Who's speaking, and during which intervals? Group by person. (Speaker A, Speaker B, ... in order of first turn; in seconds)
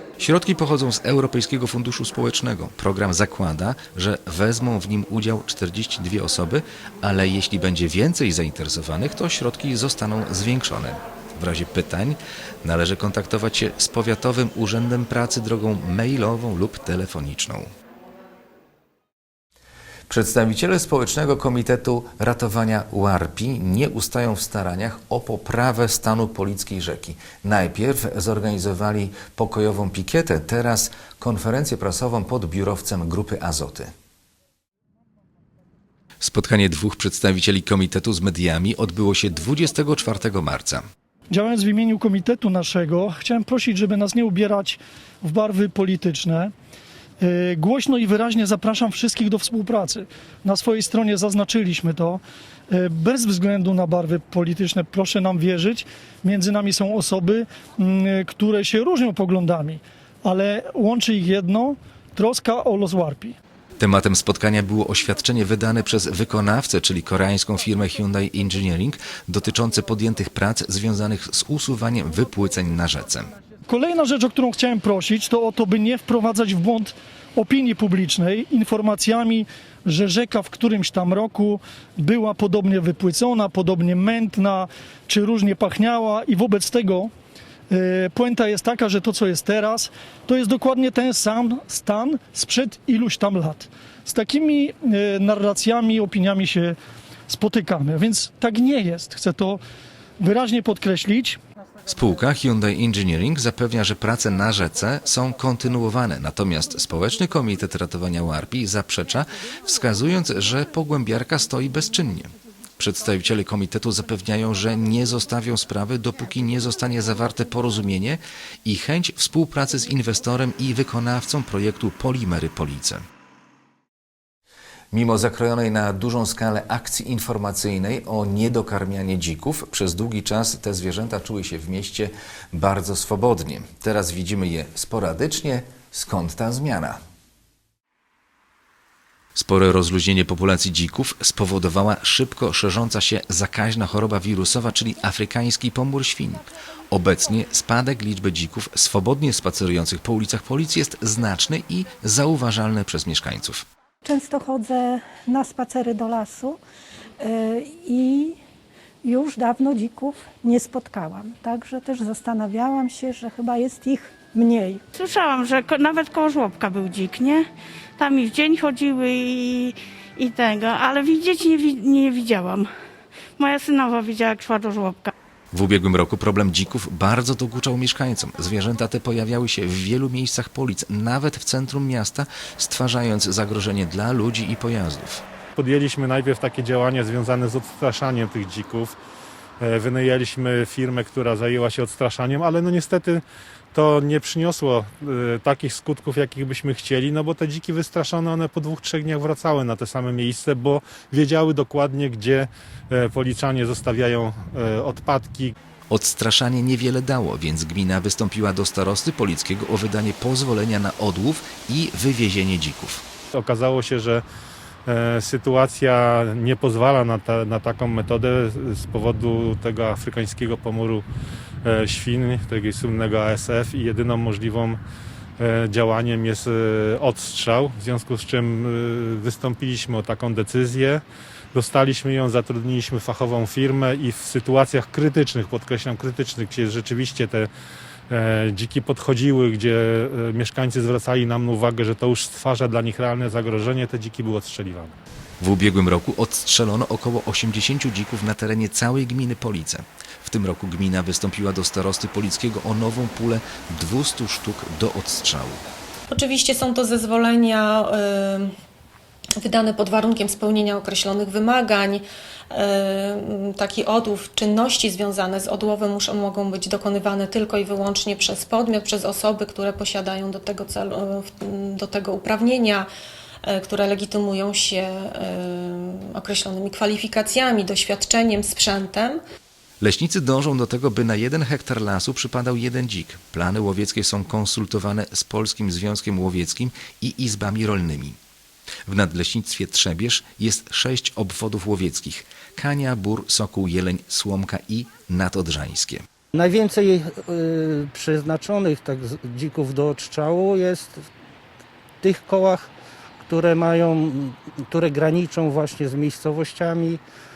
Speaker A: 0.2-17.7, 20.1-33.9, 36.2-40.8, 63.8-73.3, 101.9-123.0, 124.9-137.0, 139.4-153.7, 175.5-185.2, 205.9-213.0, 245.4-255.6, 279.8-288.2, 288.9-296.0
Speaker B: 41.3-46.5, 47.2-63.4, 73.7-87.1, 87.7-96.8, 97.3-99.6, 100.2-101.4
Speaker C: 154.1-156.6, 157.2-158.4, 159.0-165.0
Speaker D: 165.2-166.4, 168.1-168.8, 170.3-172.4, 173.6-174.9
Speaker E: 185.6-188.9, 189.6-193.2, 193.7-205.5, 213.3-214.2, 214.9-221.0, 221.6-224.8, 225.4-231.0, 231.5-237.5, 238.1-244.9
Speaker F: 256.1-258.5, 259.4-272.9, 273.4-279.2
Speaker G: 296.3-301.1, 302.0-302.7, 303.2-307.0